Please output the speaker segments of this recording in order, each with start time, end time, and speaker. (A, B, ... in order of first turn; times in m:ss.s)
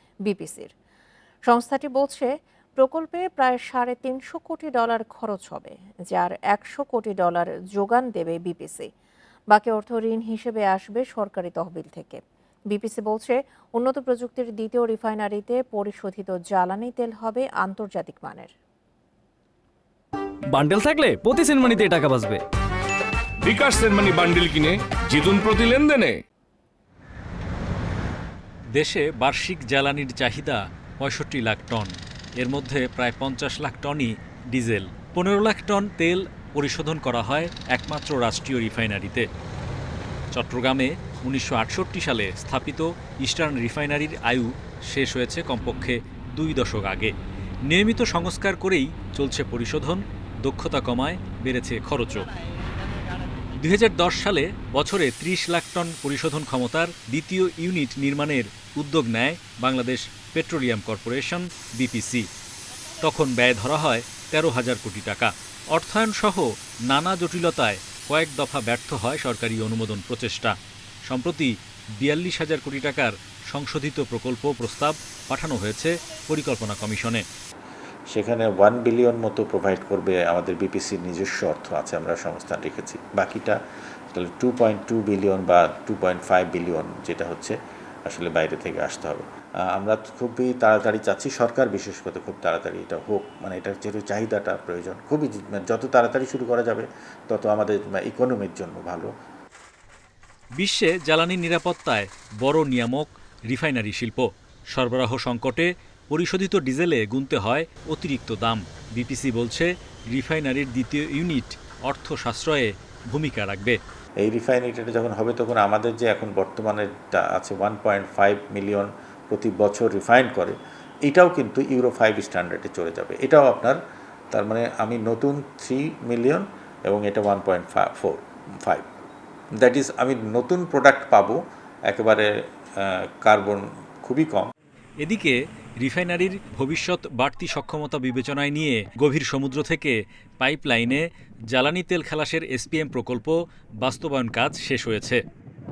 0:00.2-0:00.7 A
0:01.5-0:08.9 A
0:09.5-0:18.5 A
0:20.5-0:22.4 B
0:23.4-0:26.2 C
0:28.7-0:39.3 D
0:40.3-0:47.1 D
0:47.7-0:52.3 D
0:53.6-1:02.3 D
1:03.0-1:10.6 D
1:11.1-1:17.2 D
1:18.1-1:23.6 E
1:24.1-1:27.6 E
1:28.1-1:39.1 E
1:40.6-1:53.8 D
1:54.2-2:03.8 E
2:04.3-2:08.9 E
2:09.6-2:14.5 E
2:15.0-2:25.2 D